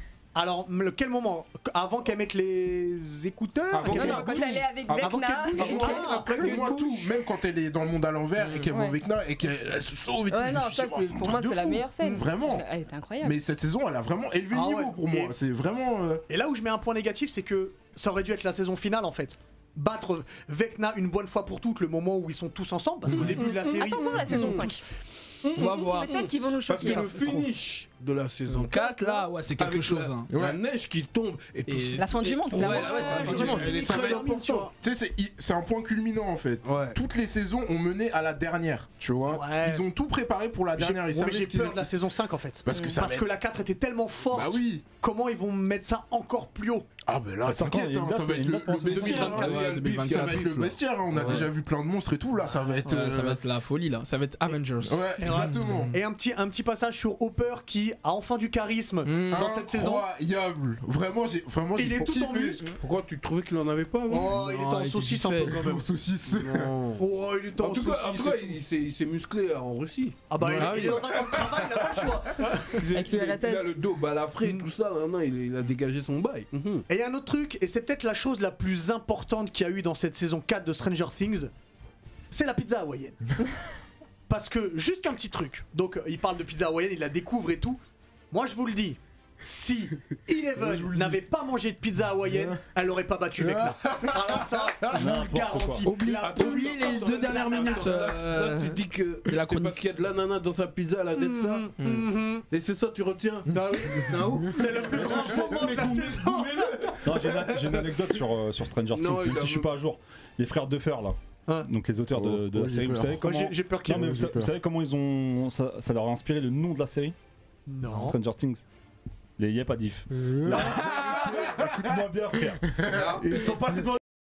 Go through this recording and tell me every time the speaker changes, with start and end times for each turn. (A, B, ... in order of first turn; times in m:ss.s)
0:00.4-0:06.8 A
0:03.7-0:12.6 B
0:03.9-0:06.0 C
0:03.9-0:04.3 D
0:05.5-0:07.1 D
0:08.7-0:09.0 C
0:10.3-0:13.4 C
0:13.2-0:16.2 B
0:14.5-0:15.3 A
0:16.3-0:24.8 A
0:23.2-0:23.5 D
0:23.2-0:24.8 C
0:24.1-0:24.4 D
0:25.4-0:34.7 D
0:25.6-0:26.2 E
0:25.6-0:27.5 C
0:26.8-0:27.5 A
0:28.5-0:30.3 E
0:30.3-0:30.6 B
0:31.7-0:34.0 E
0:32.0-0:33.6 C
0:32.7-0:34.7 A
0:33.6-0:34.2 B
0:34.8-0:41.9 B
0:36.6-0:37.0 D
0:39.3-0:39.8 A
0:40.8-0:46.9 A
0:42.6-0:43.3 B
0:44.3-0:44.8 B
0:47.1-0:53.4 B
0:47.4-0:49.4 F
0:48.9-0:51.5 D
0:48.9-0:49.5 A
0:49.1-0:50.6 E
0:51.1-0:51.5 E
0:52.5-0:52.8 A
0:52.8-0:55.9 E
0:54.8-0:56.0 B
0:55.2-1:00.1 A
0:59.0-0:59.4 E
0:59.3-1:02.6 B
1:01.8-1:02.7 A
1:02.8-1:04.4 D
1:04.1-1:05.9 A
1:04.3-1:05.6 E
1:05.4-1:06.7 B
1:06.3-1:07.0 D
1:07.0-1:08.6 A
1:07.6-1:16.8 D
1:10.3-1:12.8 A
1:10.4-1:11.1 E
1:12.9-1:13.7 C
1:16.9-1:21.5 A
1:22.3-1:23.3 A
1:24.3-1:27.8 A
1:28.3-1:38.2 A
1:32.3-1:32.6 B
1:33.4-1:35.1 B
1:34.9-1:35.9 F
1:35.8-1:39.8 E
1:36.0-1:41.7 D
1:41.2-1:42.4 A
1:41.8-1:42.1 E
1:42.5-1:48.1 D
1:43.5-1:44.5 B
1:43.5-1:47.0 A
1:45.4-1:45.9 F
1:47.0-1:57.1 F
1:48.9-1:49.7 D
1:52.1-1:53.2 B
1:53.2-1:54.3 A
1:53.9-1:54.5 B
1:57.7-1:58.2 A
1:57.9-1:58.6 F
1:59.4-2:03.9 F
2:00.1-2:02.0 B
2:02.7-2:03.8 B
2:02.8-2:03.5 D